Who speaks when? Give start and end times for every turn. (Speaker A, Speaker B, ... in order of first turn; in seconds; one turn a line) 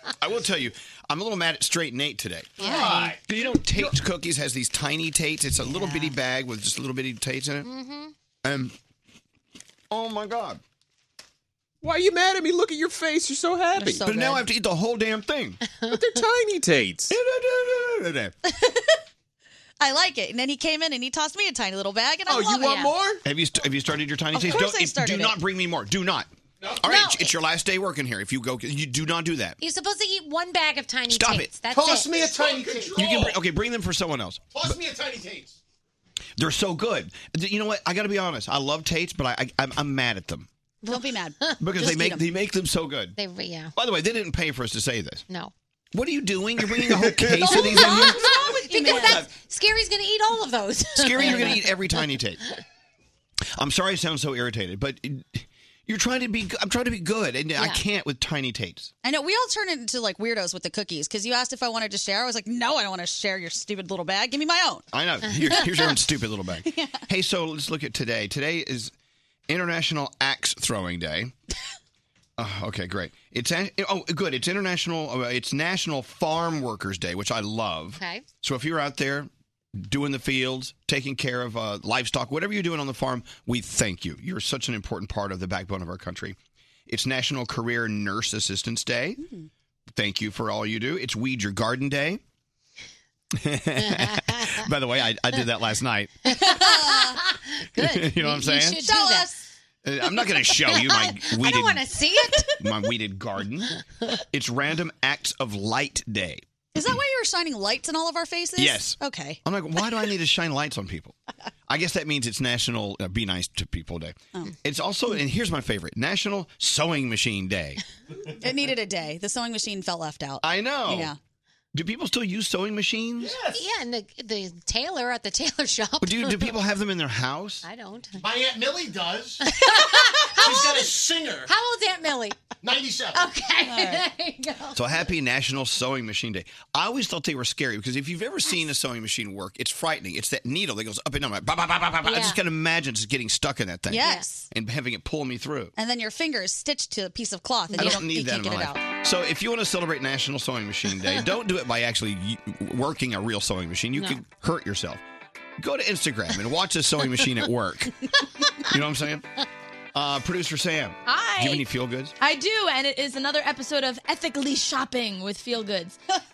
Speaker A: 0.2-7.7
Speaker B: 2.6-3.1
Speaker C: 2.6-3.1
Speaker C: 5.7-6.1
Speaker B: 7.6-8.1
Speaker A: 8.4-8.7
Speaker A: 9.9-10.6
Speaker D: 11.8-14.0
Speaker C: 13.8-14.5
Speaker A: 14.0-15.6
Speaker B: 15.7-16.0
Speaker D: 15.9-17.1
Speaker A: 17.1-18.3
Speaker C: 18.4-18.9
Speaker C: 19.8-22.9
Speaker D: 22.3-23.2
Speaker B: 22.4-22.9
Speaker A: 23.2-29.6
Speaker C: 24.3-25.4
Speaker B: 26.8-27.3
Speaker B: 29.6-32.6
Speaker A: 31.1-31.5
Speaker E: 31.7-33.3
Speaker A: 32.9-34.8
Speaker E: 34.5-35.6
Speaker A: 36.4-40.5
Speaker B: 40.8-41.6
Speaker C: 40.9-42.3
Speaker A: 41.6-43.1
Speaker B: 43.2-43.7
Speaker A: 43.8-45.2
Speaker A: 45.9-49.2
Speaker C: 47.3-49.2
Speaker B: 47.5-51.7
Speaker A: 51.0-52.4
Speaker C: 51.2-51.5
Speaker A: 53.6-58.9
Speaker C: 59.0-64.8
Speaker A: 64.9-68.9
Speaker B: 65.4-65.6
Speaker C: 65.5-66.0
Speaker C: 66.6-67.0
Speaker A: 69.5-71.3
Speaker A: 72.4-86.4
Speaker B: 78.0-78.2
Speaker A: 86.9-89.2
Speaker C: 89.2-89.5
Speaker A: 89.9-92.2
Speaker A: 93.4-96.2
Speaker B: 93.8-94.5
Speaker B: 96.3-99.3
Speaker C: 96.3-97.2
Speaker A: 97.8-98.8
Speaker C: 98.8-99.5
Speaker A: 99.8-101.8
Speaker B: 100.5-102.6
Speaker A: 102.6-106.4
Speaker C: 106.7-109.4
Speaker A: 108.6-111.1
Speaker A: 111.7-117.8
Speaker C: 118.4-121.2
Speaker A: 120.4-121.1
Speaker A: 121.7-123.3
Speaker E: 123.2-123.5
Speaker B: 123.5-126.6
Speaker A: 126.0-127.6
Speaker B: 127.6-128.2
Speaker E: 128.2-129.4
Speaker B: 129.4-132.5
Speaker E: 130.4-131.5
Speaker E: 132.6-133.3
Speaker B: 133.1-134.8
Speaker C: 133.6-134.0
Speaker A: 134.7-145.7
Speaker B: 142.0-142.4
Speaker C: 143.9-144.5
Speaker C: 145.8-148.8
Speaker A: 147.8-155.0
Speaker A: 155.6-157.9
Speaker A: 158.7-159.3
Speaker A: 159.9-162.1
Speaker F: 161.1-161.6
Speaker F: 162.2-166.0